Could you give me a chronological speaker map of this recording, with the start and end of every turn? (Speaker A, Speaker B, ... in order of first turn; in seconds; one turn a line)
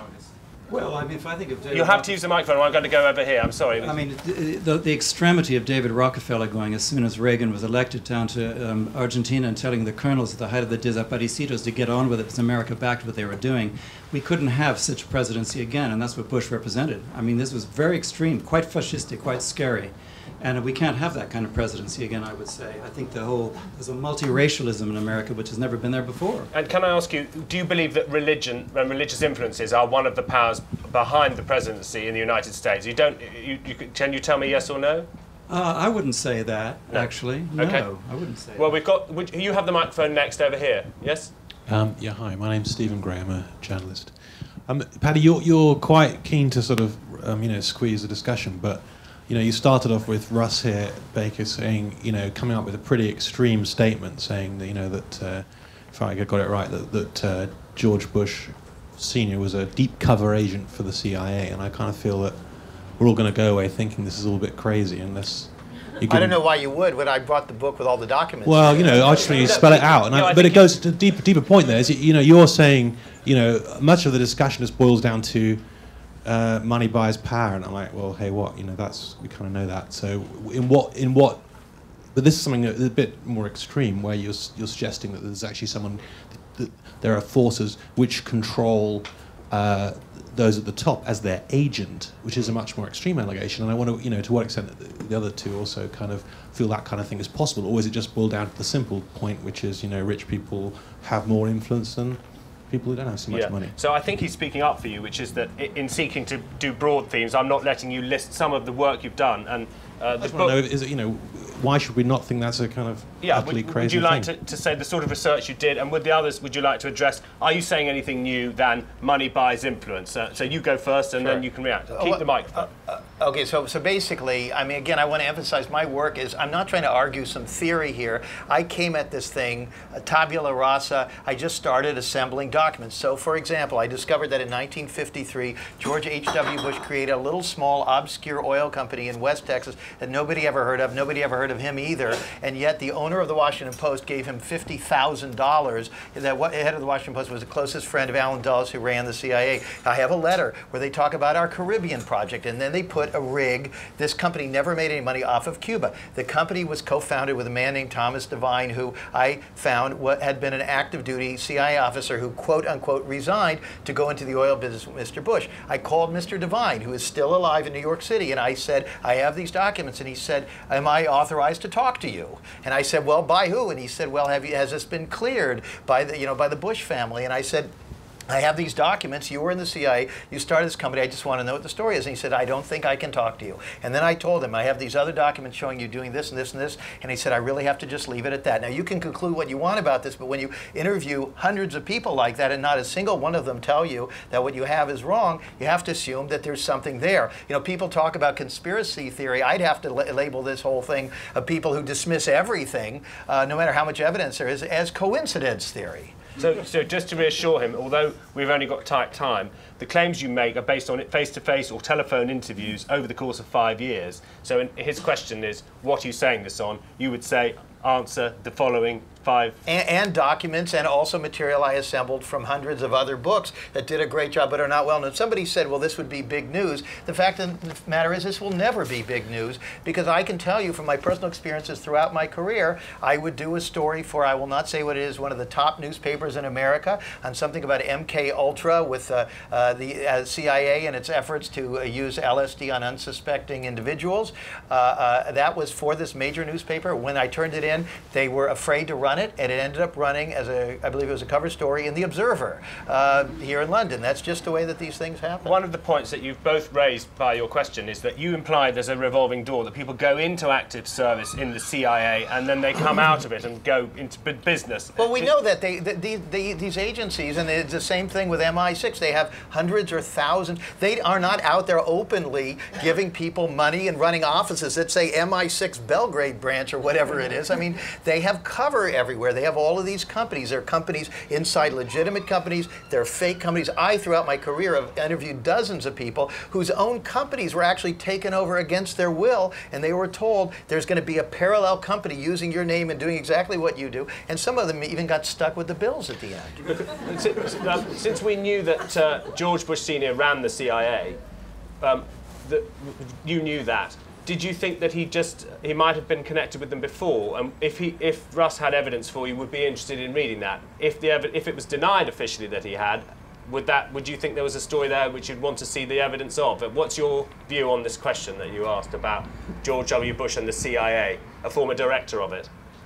Speaker A: 0.7-2.2
Speaker B: 1.7-4.0
Speaker A: 3.8-26.5
Speaker B: 26.5-35.1
Speaker A: 35.5-38.8
Speaker B: 36.9-37.9
Speaker B: 38.5-41.3
Speaker C: 41.7-66.4
Speaker D: 66.1-69.5
Speaker C: 68.5-103.8
Speaker B: 69.2-70.8
Speaker B: 103.3-110.6
Speaker C: 110.2-114.3
Speaker B: 113.2-122.7
Speaker D: 121.2-177.7
Speaker D: 178.3-206.2
Speaker B: 206.4-219.6
Speaker D: 219.7-255.5
Speaker B: 255.4-265.3
Speaker D: 265.0-296.6
Speaker B: 296.8-301.2
Speaker B: 301.8-322.5